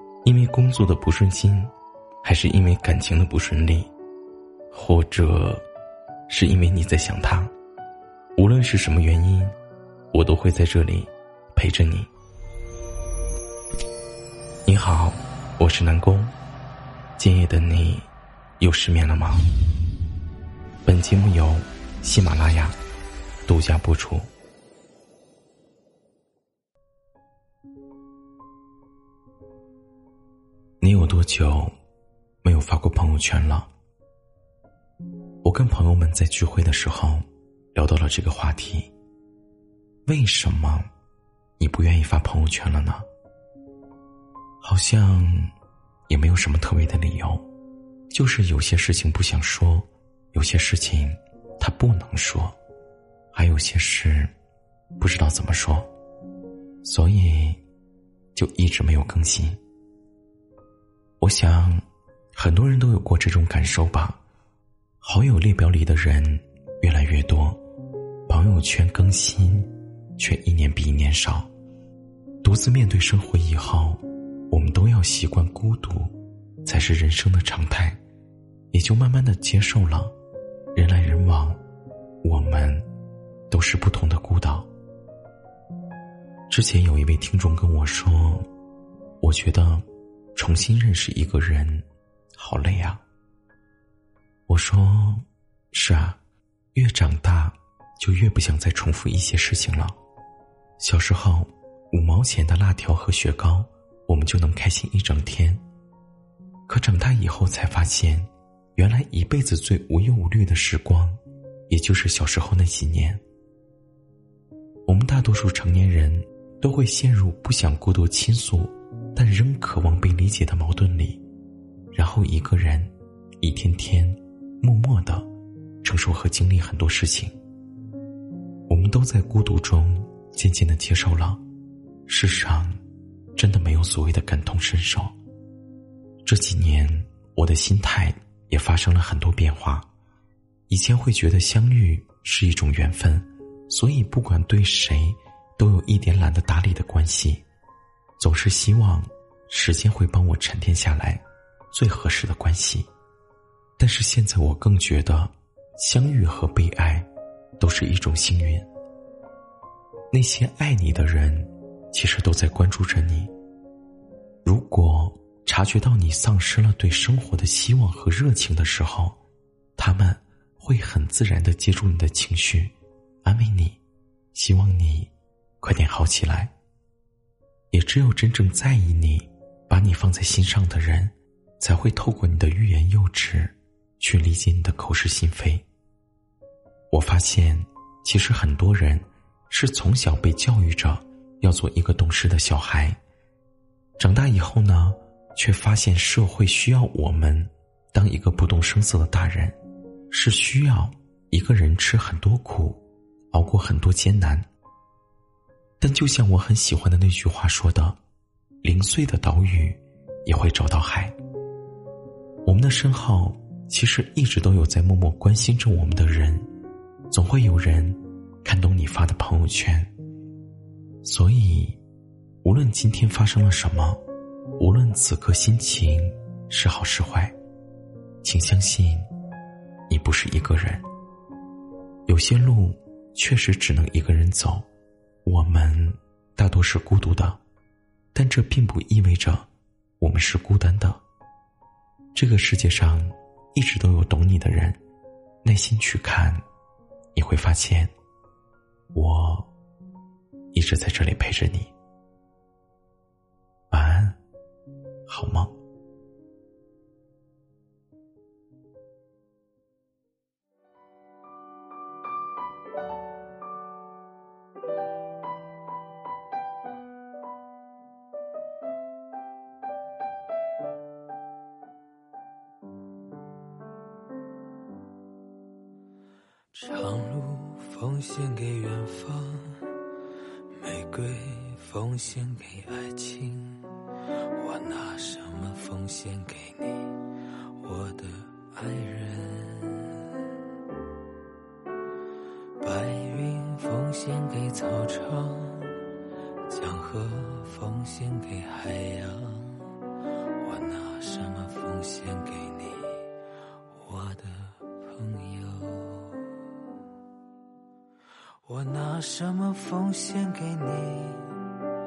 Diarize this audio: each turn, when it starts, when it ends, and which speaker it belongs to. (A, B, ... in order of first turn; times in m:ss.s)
0:00.2-0:03.9 A
0:04.7-0:05.6 A
0:06.3-0:07.5 A
0:08.4-0:09.5 A
0:10.1-0:12.1 A
0:14.6-0:16.3 A
0:17.2-0:19.5 A
0:20.8-0:22.8 A
0:23.4-0:24.3 A
0:30.8-0:31.7 A
0:32.4-0:33.7 A
0:35.4-0:38.9 A
0:40.0-0:40.9 A
0:41.6-0:43.1 A
0:44.6-0:45.5 A
0:46.1-0:47.5 A
0:48.1-0:52.6 A
0:53.3-0:54.3 A
0:55.0-0:55.9 A
0:56.8-0:57.6 A
0:58.3-0:59.6 A
1:01.2-1:04.2 A
1:05.0-1:07.6 A
1:08.3-1:11.5 A
1:12.4-1:18.0 A
1:18.7-1:20.1 A
1:20.7-1:21.6 A
1:22.2-1:22.9 A
1:23.5-1:24.7 A
1:26.5-1:28.5 A
1:29.2-1:33.0 A
1:34.5-1:36.2 A
1:36.7-1:40.0 A
1:40.8-1:45.6 A
1:46.7-1:53.2 A
1:54.8-2:01.2 A
2:01.9-2:05.3 A
2:05.8-2:07.3 A
2:08.7-2:11.4 A
2:12.1-2:12.8 A
2:13.3-2:15.1 A
2:16.2-2:19.9 A
2:20.7-2:27.4 A
2:28.2-2:32.9 A
2:33.8-2:38.7 A
2:40.1-2:43.3 A
2:44.4-2:49.2 A
2:49.8-2:53.8 A
2:54.3-2:56.5 A
2:57.7-3:05.6 A
3:06.9-3:13.0 A
3:14.0-3:19.6 A
3:20.1-3:24.4 A
3:25.8-3:28.0 A
3:28.6-3:31.2 A
3:32.4-3:36.5 A
3:37.1-3:39.9 A
3:41.0-3:41.8 A
3:42.4-3:44.0 A
3:44.6-3:47.3 A
3:48.2-3:49.1 A
3:49.9-3:50.8 A
3:52.1-3:54.7 A
3:55.2-3:57.4 A
3:58.1-3:59.5 A
4:00.0-4:01.0 A
4:02.1-4:04.8 A
4:05.4-4:06.4 A
4:07.1-4:07.9 A
4:08.9-4:09.5 A
4:10.5-4:11.7 A
4:13.7-4:14.2 A
4:15.1-4:15.5 A
4:36.6-4:39.7 B
4:37.3-4:37.7 A
4:38.9-4:39.6 A
4:40.6-4:46.9 B
4:41.2-4:41.6 A
4:42.8-4:43.6 A
4:44.9-4:45.6 A
4:47.6-4:50.2 B
4:48.2-4:48.6 A
4:52.6-4:55.8 B
4:55.3-4:55.7 A
4:56.5-4:59.7 B
4:59.2-4:59.5 A
5:00.4-5:02.9 B
5:03.8-5:06.3 B
5:04.5-5:06.1 A
5:08.5-5:11.6 B
5:10.9-5:11.3 A